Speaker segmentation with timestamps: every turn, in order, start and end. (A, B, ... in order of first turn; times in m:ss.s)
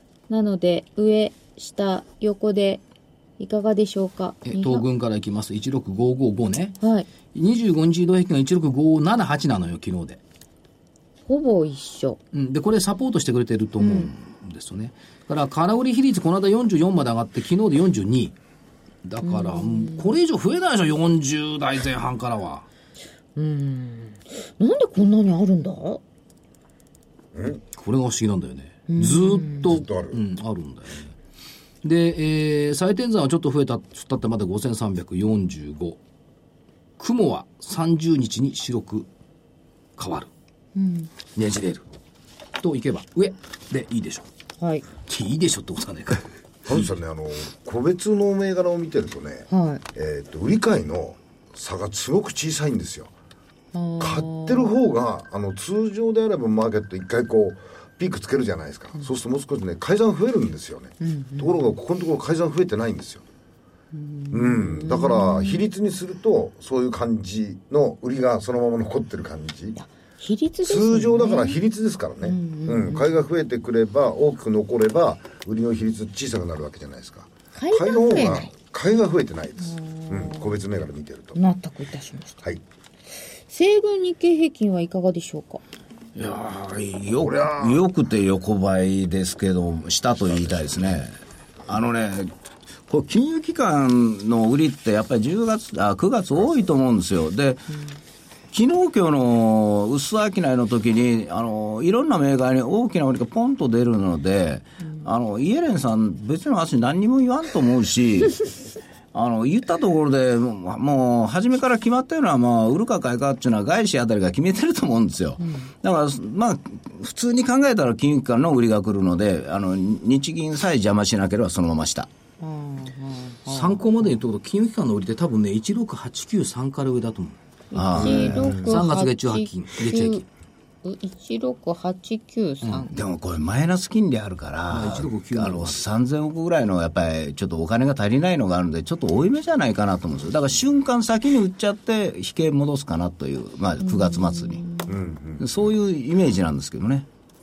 0:00.3-0:02.8 A
0:03.4-0:04.8 A
0:04.5-0:06.8 B
0:06.8-0:07.1 A
0:07.3-0:10.2 B
0:11.3-0:12.2 A
0:12.3-0:18.4 B
0:13.8-0:14.1 A
0:19.0-0:22.6 B
0:19.2-0:20.1 A
0:23.4-0:26.0 A
0:27.3-0:27.6 C
0:27.8-0:31.1 B
0:28.9-0:29.7 A
0:29.6-0:30.2 C
0:31.8-0:36.0 B
0:37.0-0:39.1 B
0:40.0-0:40.3 B
0:40.8-0:41.1 A
0:41.3-0:41.9 B
0:42.6-0:44.3 B
0:45.1-0:46.2 B
0:46.7-0:53.1 C
0:49.5-0:49.8 A
0:53.7-0:54.7 A
0:54.0-1:03.2 C
1:01.0-1:01.7 A
1:03.9-1:05.7 A
1:04.3-1:09.8 C
1:09.8-1:11.6 A
1:10.6-1:21.4 C
1:12.2-1:13.1 A
1:17.6-1:18.5 A
1:19.6-1:20.6 A
1:21.4-1:22.4 A
1:23.5-1:25.6 A
1:26.2-1:31.1 D
1:27.2-1:27.8 C
1:31.7-1:32.3 D
1:32.9-1:37.7 D
1:38.5-1:48.4 D
1:49.1-2:02.1 D
1:55.4-1:55.7 A
2:02.4-2:03.8 A
2:03.5-2:07.4 B
2:07.7-2:10.2 A
2:07.7-2:08.7 D
2:08.0-2:10.2 B
2:10.8-2:13.0 A
2:12.8-2:24.6 D
2:14.7-2:15.8 B
2:23.9-2:24.9 A
2:24.9-2:25.6 C
2:25.4-2:27.1 D